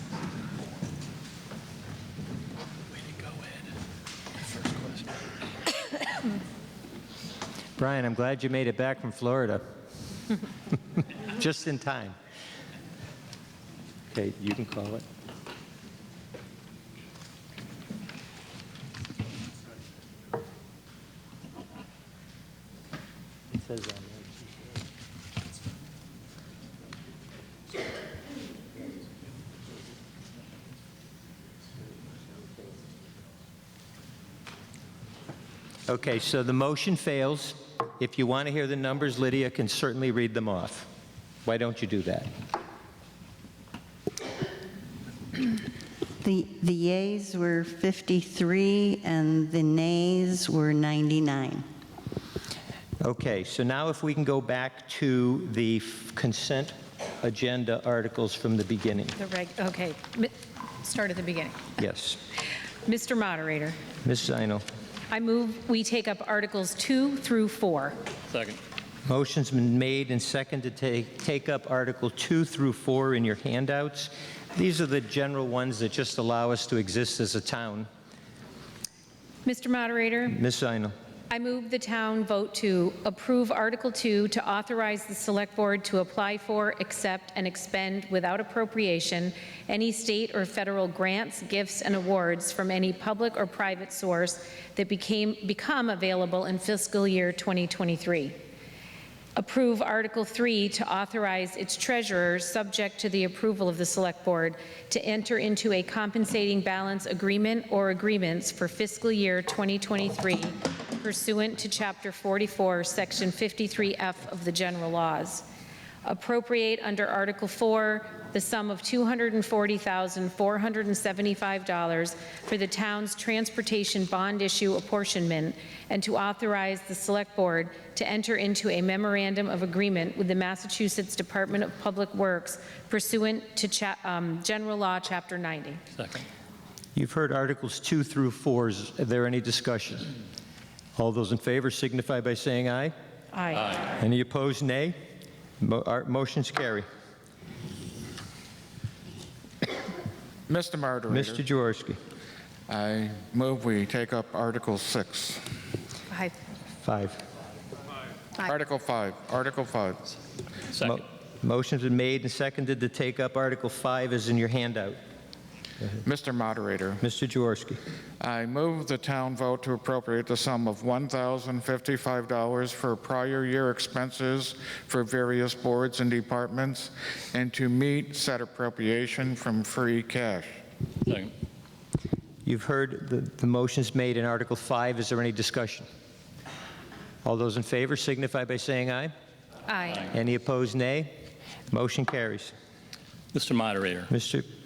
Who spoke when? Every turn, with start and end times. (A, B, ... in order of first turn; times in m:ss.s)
0:04.5-0:05.0 A
0:07.8-0:09.6 B
0:11.2-0:12.2 B
0:14.1-0:15.0 B
0:23.5-0:24.5 B
0:35.9-0:40.9 B
0:41.4-0:42.3 B
0:46.2-0:51.6 C
0:53.0-0:59.2 B
0:59.2-1:01.6 D
1:01.8-1:02.2 B
1:02.8-1:03.8 D
1:04.0-1:04.6 B
1:05.1-1:08.0 D
1:08.3-1:08.6 A
1:09.1-1:17.9 B
1:19.4-1:20.4 D
1:20.3-1:20.9 B
1:21.3-1:38.4 D
1:39.4-1:55.5 D
1:56.0-2:15.8 D
2:16.0-2:16.2 A
2:17.0-2:20.1 B
2:21.0-2:22.9 B
2:23.3-2:23.8 D
2:23.9-2:25.0 B
2:25.6-2:26.8 B
2:30.5-2:31.4 E
2:31.1-2:32.0 B
2:32.7-2:35.4 E
2:36.1-2:36.3 D
2:36.8-2:37.2 B
2:38.4-2:40.1 E
2:40.7-2:41.0 A
2:40.8-2:45.0 B
2:46.0-2:47.0 E
2:47.0-2:47.8 B
2:48.2-3:00.6 E
3:01.0-3:01.3 A
3:02.4-3:05.8 B
3:07.2-3:09.1 B
3:09.7-3:10.1 D
3:10.0-3:11.1 B
3:11.7-3:12.5 B
3:13.3-3:14.1 A
3:14.1-3:14.5 B